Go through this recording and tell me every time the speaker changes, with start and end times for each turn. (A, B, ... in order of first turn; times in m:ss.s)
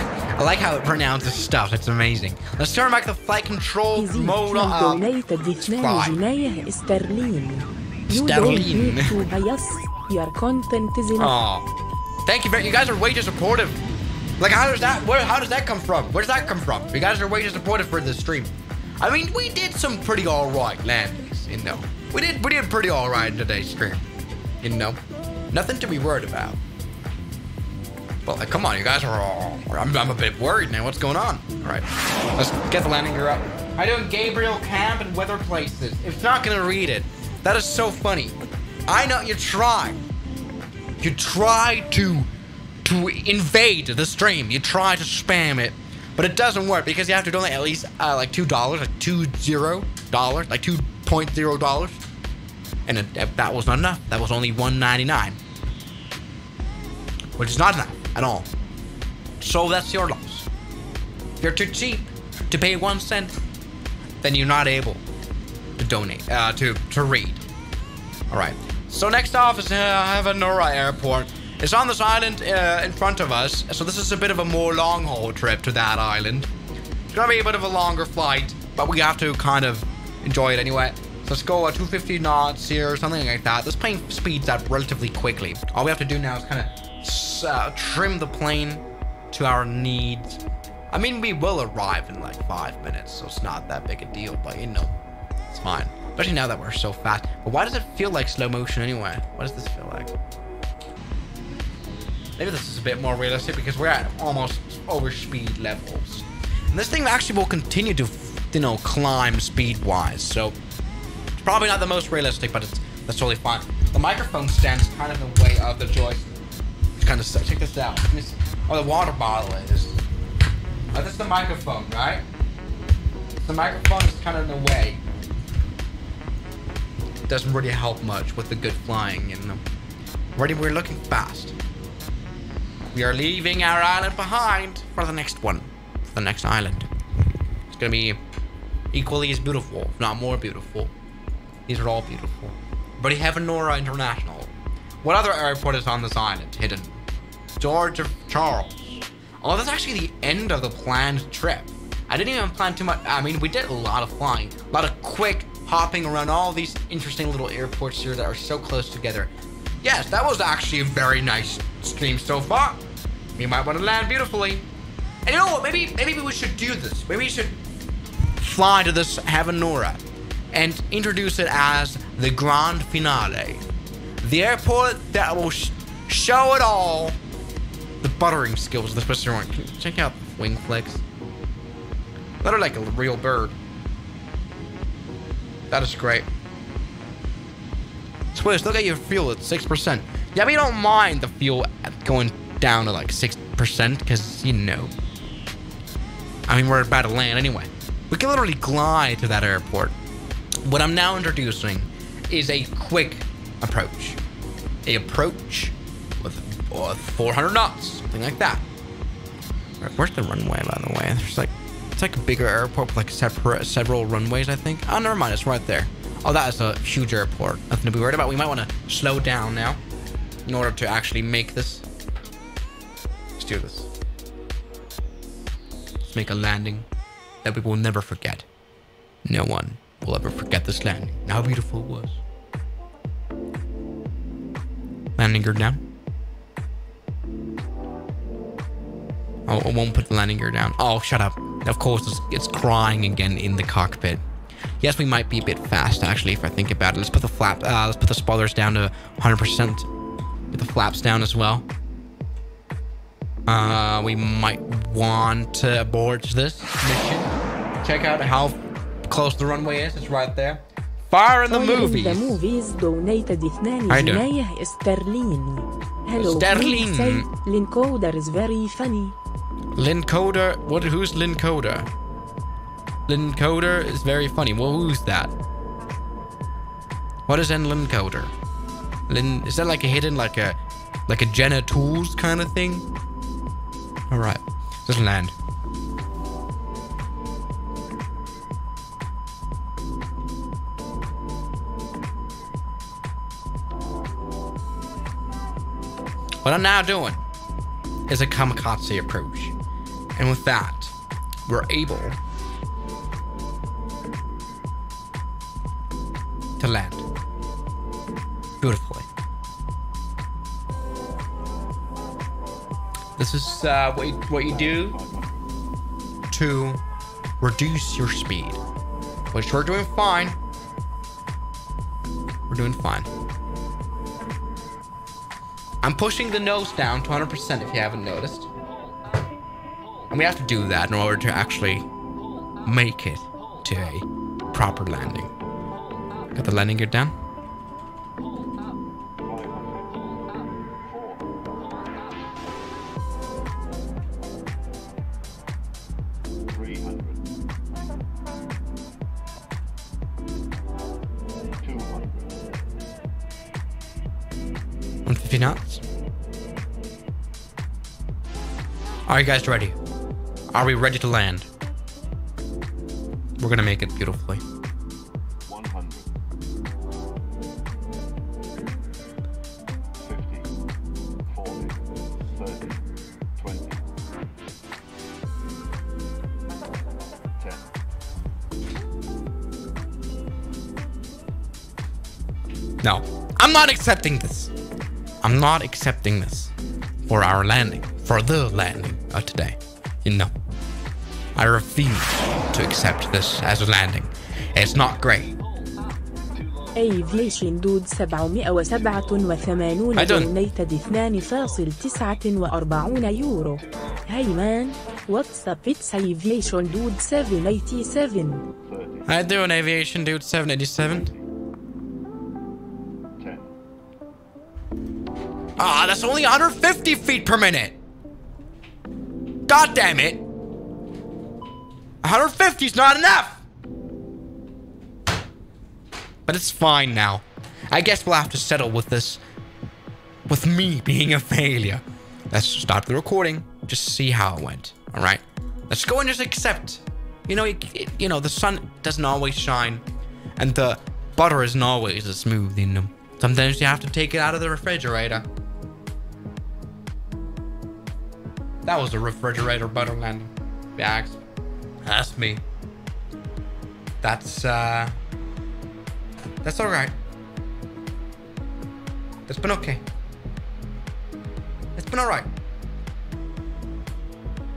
0:00.4-0:05.0 A
0:03.9-0:11.3 B
0:05.6-0:06.2 A
0:08.1-0:09.2 A
0:11.2-0:11.7 A
0:12.2-0:13.8 A
0:14.4-0:24.0 A
0:24.6-0:25.0 A
0:25.5-0:26.6 A
0:28.2-0:40.0 A
0:41.0-0:42.3 A
0:42.8-0:52.0 A
0:52.8-0:55.4 A
0:57.4-0:58.5 A
0:59.4-1:00.5 A
1:01.4-1:03.3 A
1:04.2-1:05.0 A
1:05.8-1:07.4 A
1:08.3-1:16.5 A
1:17.1-1:34.9 A
1:35.5-1:40.1 A
1:42.4-1:50.6 A
1:51.4-1:56.3 A
1:57.0-2:00.0 A
2:00.9-2:02.2 A
2:03.4-2:05.0 A
2:07.3-2:09.6 A
2:10.4-2:11.6 A
2:12.9-2:16.9 A
2:17.7-2:18.2 A
2:18.9-2:20.9 A
2:21.7-2:27.0 A
2:27.5-2:42.8 A
2:43.4-2:44.6 A
2:45.2-2:47.6 A
2:48.4-2:53.6 A
2:54.2-2:57.2 A
2:58.0-3:01.0 A
3:02.4-3:03.6 A
3:05.7-3:06.3 A
3:08.3-3:14.9 A
3:16.5-3:19.9 A
3:20.6-3:24.2 A
3:24.8-3:28.6 A
3:29.8-3:39.8 A
3:40.4-3:41.8 A
3:43.4-3:43.9 A
3:46.0-3:46.9 A
3:47.4-3:48.4 A
3:49.2-3:52.2 A
3:55.2-3:55.8 A
3:59.5-4:04.2 A
4:04.8-4:09.9 A
4:10.5-4:11.6 A
4:13.5-4:22.4 A
4:21.5-4:29.2 B
4:23.9-4:24.3 A
4:26.1-4:27.3 A
4:29.7-4:31.9 A
4:33.1-4:35.3 A
4:37.3-4:38.3 A
4:39.1-4:42.9 A
4:44.1-4:45.3 A
4:56.4-4:57.2 A
4:58.1-4:59.5 A
5:00.2-5:00.9 A
5:01.4-5:02.2 A
5:06.6-5:07.0 A
5:08.6-5:09.1 A
5:13.2-5:15.0 A
5:14.3-5:15.5 C
5:16.3-5:16.8 A
5:17.4-5:18.6 A
5:19.3-5:20.4 A
5:22.5-5:23.1 A
5:25.8-5:28.5 A
5:30.1-5:31.9 A
5:32.6-5:35.3 A
5:36.3-5:37.1 A
5:39.2-5:42.2 C
5:46.5-5:47.2 C
5:51.6-5:52.7 C
5:55.0-5:55.8 A
5:59.1-5:59.8 A
6:00.5-6:01.5 A
6:03.4-6:04.4 A
6:05.4-6:06.1 C
6:10.0-6:10.5 C
6:11.2-6:12.8 C
6:13.4-6:13.8 C
6:17.4-6:17.7 C
6:22.8-6:24.5 A
6:25.2-6:26.5 A
6:27.0-6:30.3 A
6:31.4-6:35.3 A
6:34.6-6:37.4 C
6:36.7-6:48.4 B
6:38.7-6:39.8 C
6:39.9-6:40.3 A
6:41.2-6:41.8 C
6:46.4-6:46.9 C
6:48.6-6:49.4 C
6:49.0-6:51.1 A
6:50.8-6:51.3 C
6:53.2-6:53.5 C
6:55.6-6:57.8 A
6:59.5-7:00.2 A
7:02.0-7:03.4 A
7:06.2-7:09.2 A
7:10.3-7:19.8 A
7:20.4-7:25.2 A
7:28.6-7:31.2 A
7:31.8-7:32.4 A
7:34.0-7:35.0 A
7:36.4-7:36.9 A
7:39.3-7:39.8 A
7:41.7-7:42.3 A